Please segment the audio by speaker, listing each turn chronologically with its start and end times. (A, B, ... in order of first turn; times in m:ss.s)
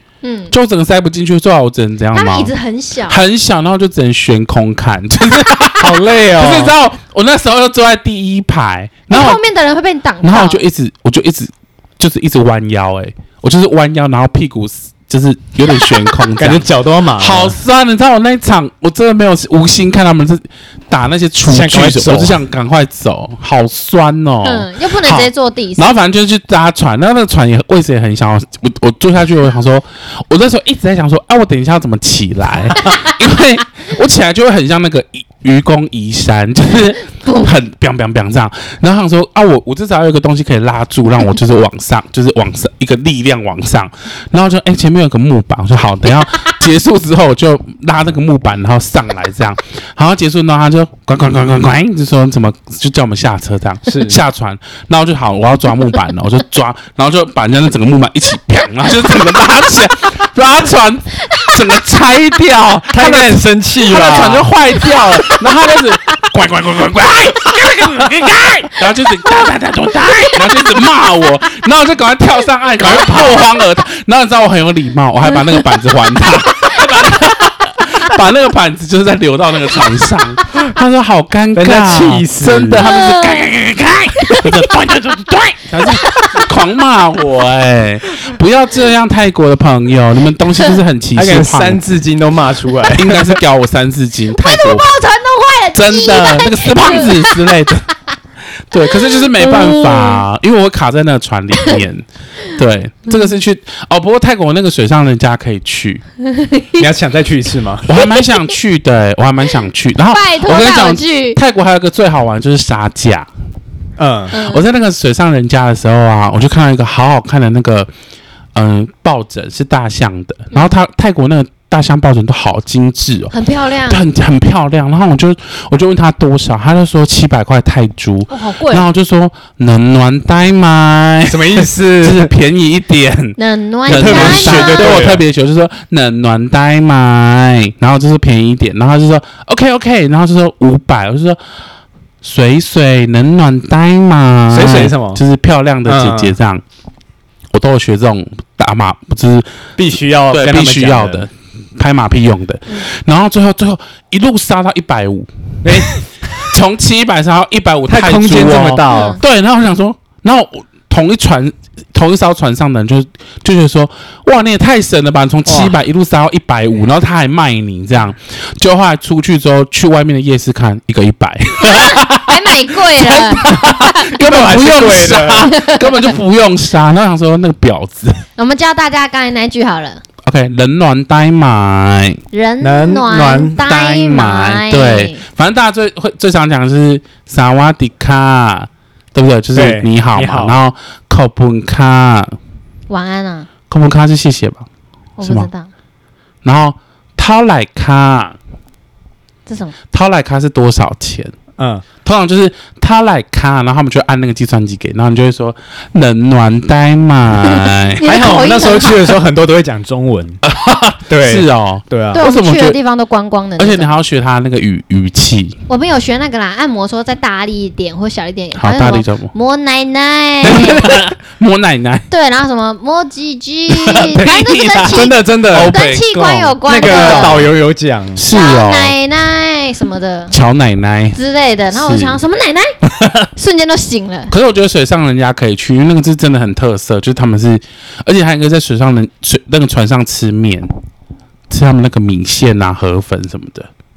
0:00.2-0:00.5 A
0:00.5-0:02.5 B
0:02.1-0:03.2 A
0:03.1-0:09.4 B
0:05.8-0:06.7 C
0:09.1-0:10.6 A
0:10.2-1:31.8 B
0:15.8-0:16.1 A
0:16.4-0:17.6 C
0:21.5-0:22.4 C
0:24.4-0:25.9 A
0:53.9-0:54.2 C
1:02.9-1:04.5 C
1:12.8-1:13.5 C
1:21.5-1:22.9 C
1:22.8-1:23.4 A
1:24.2-1:24.6 A
1:25.7-1:26.2 C
1:25.9-1:26.4 A
1:31.1-1:33.4 C
1:32.9-1:34.9 B
1:34.3-1:37.8 A
1:35.7-1:37.8 B
1:38.7-1:46.0 B
1:38.8-1:40.2 A
1:46.2-1:46.8 A
1:46.8-1:48.0 C
1:47.8-1:53.3 B
1:48.0-1:48.5 A
1:50.1-1:51.4 A
1:54.0-1:54.4 C
1:54.3-1:54.6 A
1:54.3-1:57.9 B
1:58.5-2:03.3 B
2:03.3-2:04.0 A
2:03.8-2:21.4 B
2:08.3-2:08.9 A
2:11.2-2:12.3 C
2:13.4-2:15.1 A
2:13.9-2:15.2 C
2:22.2-2:26.6 B
2:24.5-2:25.2 C
2:25.8-2:26.4 C
2:27.5-2:29.6 B
2:29.8-2:31.2 C
2:30.3-2:58.2 B
2:35.6-2:36.5 C
2:37.9-2:39.2 C
2:38.9-2:39.2 A
2:45.4-2:45.7 C
2:51.6-2:54.1 A
2:53.4-2:55.5 C
2:55.5-2:56.1 A
2:58.4-3:00.0 A
3:00.2-3:02.2 B
3:02.3-3:05.2 A
3:02.6-3:04.6 C
3:04.6-3:12.4 B
3:09.5-3:10.5 C
3:12.9-3:13.5 A
3:13.7-3:14.6 B
3:15.2-3:15.7 A
3:15.2-3:15.5 B
3:16.4-3:18.4 B
3:19.5-3:19.8 A
3:19.9-3:21.3 B
3:21.6-3:21.8 C
3:22.0-3:28.0 B
3:28.0-3:29.2 A
3:28.0-3:30.4 C
3:30.4-3:32.8 B
3:31.1-3:32.2 C
3:32.1-3:33.9 A
3:33.6-3:35.6 B
3:35.7-3:40.8 A
3:38.5-3:39.3 B
3:40.4-3:41.1 C
3:40.4-3:42.1 B
3:42.1-3:47.5 A
3:43.8-3:47.5 B
3:43.9-3:45.8 C
3:46.6-3:48.2 C
3:48.1-3:48.9 B
3:48.3-3:50.3 A
3:50.3-3:51.2 B
3:51.1-3:52.8 A
3:51.7-3:52.2 B
3:53.3-3:54.3 A
3:54.3-4:00.7 B
4:01.5-4:03.7 B